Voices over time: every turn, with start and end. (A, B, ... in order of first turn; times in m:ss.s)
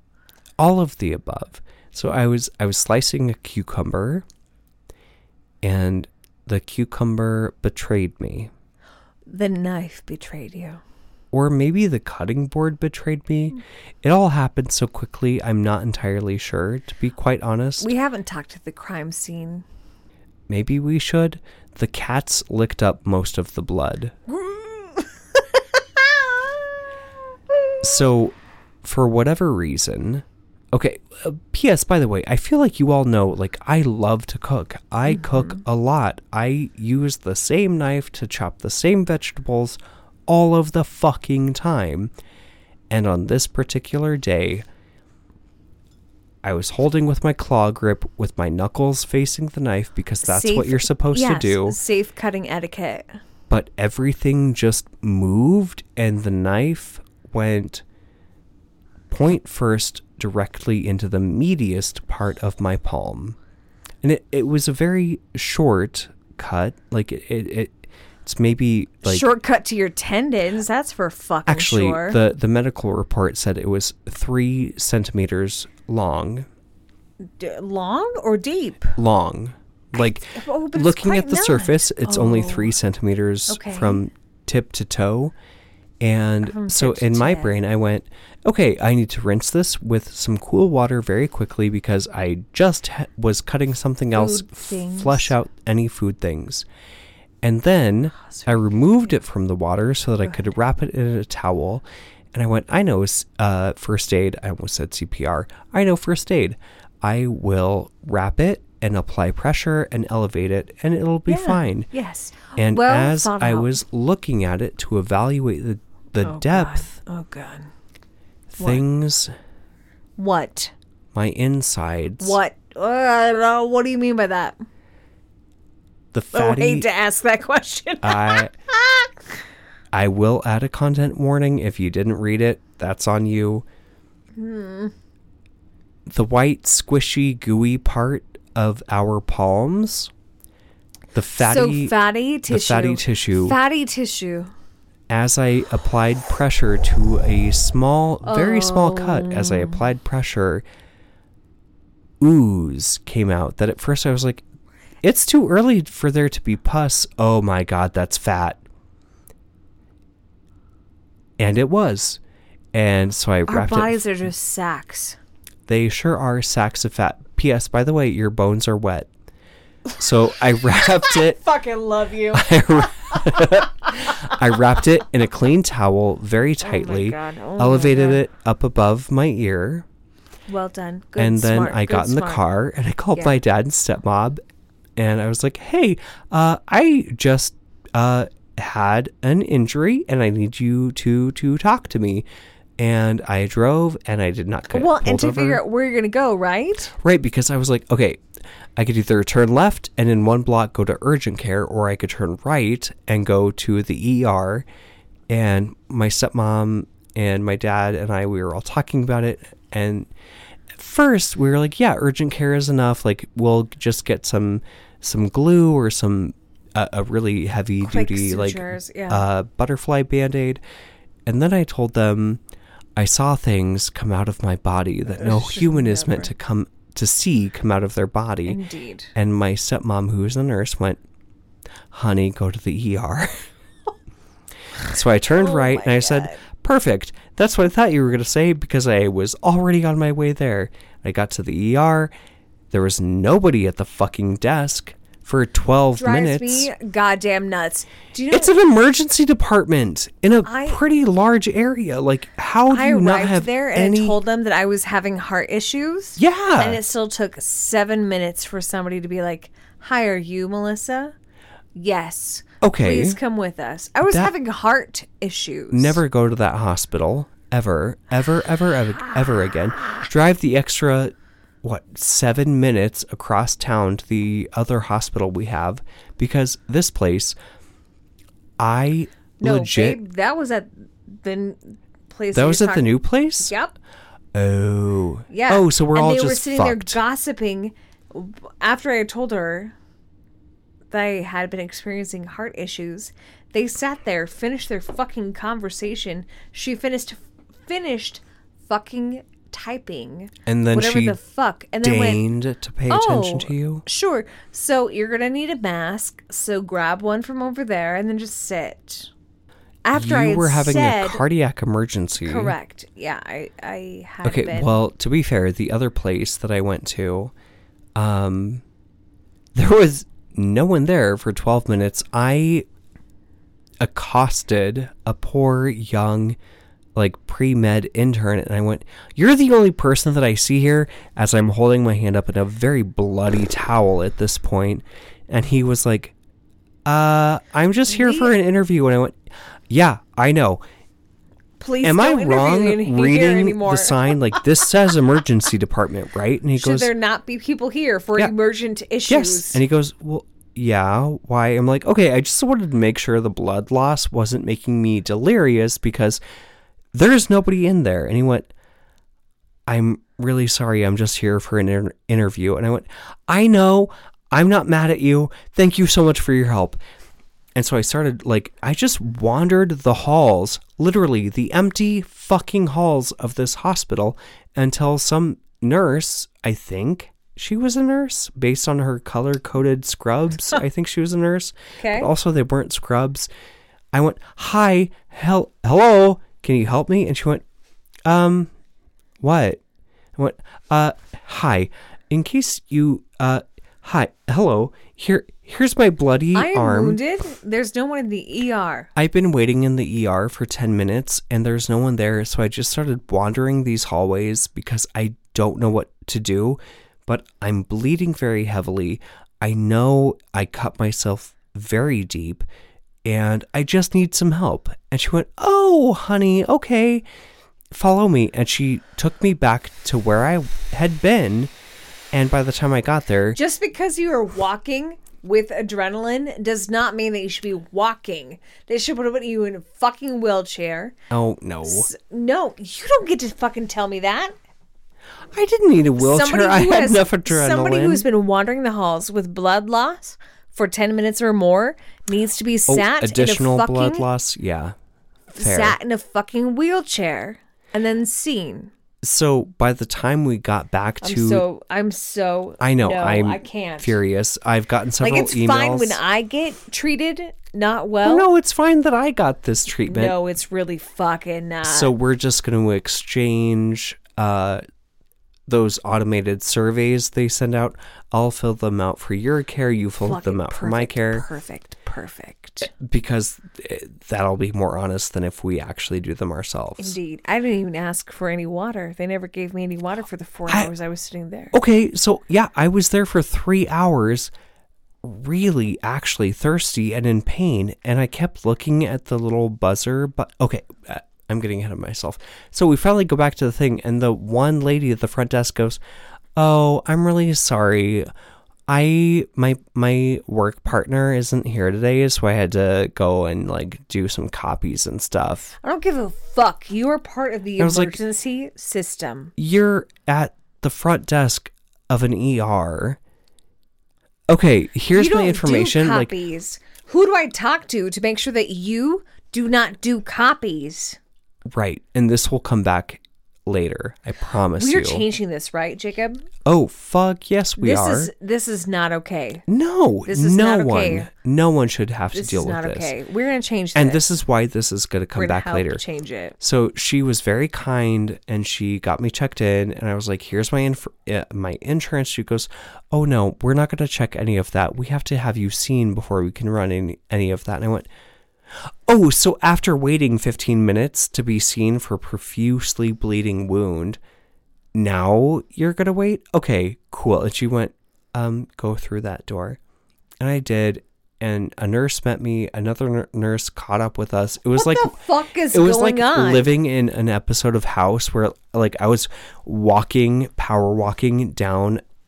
0:00.6-0:04.2 A
0:05.6-0:08.5 A
0:09.3-0:10.8 B
0:11.3-0:17.9 A
0:17.8-0:19.6 B
0:20.5-0:24.2 A
0:24.3-0:26.6 B
0:27.8-0:42.1 A
0:35.1-0:35.6 B
0:42.9-0:44.6 A
0:46.4-0:51.8 A
0:50.2-0:53.1 B
0:53.5-0:57.8 A
0:59.1-1:03.4 A
1:04.0-1:09.3 A
1:09.0-1:12.2 B
1:11.5-1:16.5 A
1:17.2-1:19.0 B
1:19.0-1:25.3 A
1:20.3-1:22.7 B
1:23.5-1:24.0 B
1:26.0-1:36.6 A
1:26.4-1:27.5 B
1:34.1-1:35.3 B
1:37.4-1:51.9 A
1:51.3-1:53.8 B
1:52.6-1:56.9 A
1:56.2-1:57.7 B
1:58.5-1:59.3 A
2:00.2-2:00.7 B
2:01.1-2:02.4 A
2:02.2-2:04.6 B
2:06.1-2:06.9 A
2:06.3-2:09.1 B
2:08.0-2:08.5 A
2:09.9-2:13.6 A
2:14.3-2:14.9 B
2:16.1-2:20.1 A
2:21.1-2:21.9 A
2:21.4-2:24.5 B
2:22.5-2:23.6 A
2:25.1-2:30.6 A
2:28.2-2:29.8 B
2:32.2-2:34.4 A
2:35.0-2:38.6 A
2:41.4-2:42.2 A
2:42.7-2:44.0 A
2:43.5-2:45.2 B
2:45.7-2:49.1 A
2:50.0-2:51.4 A
2:50.8-2:54.4 B
2:52.3-2:59.8 A
2:56.6-2:58.2 B
3:00.5-3:02.4 B
3:01.2-3:04.4 A
3:05.0-3:12.2 A
3:12.8-3:15.6 A
3:14.7-3:16.9 B
3:17.0-3:18.2 A
3:18.8-3:24.6 A
3:25.3-3:30.1 A
3:30.7-3:40.6 A
3:37.8-3:39.2 B
3:41.2-3:42.4 A
3:43.0-3:48.6 A
3:45.1-3:46.3 B
3:48.4-3:49.1 B
3:49.1-3:51.0 A
3:51.9-3:53.4 A
3:54.8-4:02.1 A
3:55.2-3:56.4 B
4:02.7-4:06.7 A
4:06.0-4:08.5 B
4:08.3-4:14.2 A
4:10.4-4:10.8 B
4:12.7-4:21.1 B
4:16.2-4:16.8 A
4:21.7-4:26.0 B
4:22.6-4:23.2 A
4:24.0-4:24.3 A
4:25.7-4:37.4 A
4:38.6-4:40.0 A
4:39.4-4:43.7 B
4:42.3-4:43.5 A
4:44.3-4:47.0 A
4:45.3-4:49.7 B
4:50.9-5:02.2 B
5:00.4-5:01.2 A
5:01.8-5:03.8 A
5:02.9-5:09.1 B
5:09.8-5:11.2 B
5:09.9-5:12.5 A
5:12.2-5:14.8 B
5:14.2-5:17.3 A
5:17.9-5:18.6 A
5:19.5-5:22.6 A
5:23.8-5:26.4 A
5:26.9-5:36.1 A
5:36.8-5:39.2 A
5:37.9-5:38.3 B
5:39.7-5:40.6 A
5:41.6-5:44.4 B
5:41.8-5:46.9 A
5:46.5-5:49.6 B
5:49.1-5:56.2 A
5:56.9-5:58.5 A
5:59.7-6:06.8 A
6:07.5-6:23.3 A
6:21.8-6:22.1 B
6:23.9-6:27.4 A
6:28.0-6:28.5 A
6:29.2-6:29.6 A
6:30.2-6:37.0 A
6:36.3-6:38.9 B
6:39.0-6:52.4 A
6:53.0-6:57.0 A
6:57.7-7:01.5 A
7:02.1-7:03.4 A
7:03.3-7:11.0 B
7:11.1-7:11.9 A
7:11.6-7:14.3 B
7:15.3-7:18.0 A
7:16.0-7:24.1 B
7:22.7-7:24.7 A
7:25.3-7:28.7 B
7:25.3-7:25.8 A
7:29.0-7:31.4 A
7:31.0-7:34.0 B
7:32.6-7:36.0 A
7:35.0-7:38.3 B
7:38.0-7:40.2 A
7:39.8-7:41.9 B
7:41.6-7:44.6 A
7:45.5-7:51.2 A
7:50.0-7:52.7 B
7:52.7-7:57.0 A
7:56.8-8:01.5 B
8:01.5-8:04.3 A
8:05.0-8:15.8 A
8:16.4-8:18.1 A
8:18.7-8:25.5 A
8:25.6-8:29.3 B
8:27.6-8:28.0 A
8:29.4-8:33.0 A
8:34.3-8:36.1 A
8:34.9-8:41.0 B
8:41.5-8:45.0 A
8:44.5-8:46.2 B
8:46.4-8:48.1 A
8:47.6-8:49.4 B
8:49.5-8:52.9 A
8:50.1-8:51.1 B
8:52.1-8:54.0 B
8:53.7-8:55.8 A
8:55.2-8:56.4 B
8:56.4-9:07.9 A
9:08.6-9:14.0 A
9:14.7-9:19.6 A
9:20.2-9:25.0 A
9:24.5-9:26.5 B
9:25.5-9:31.8 A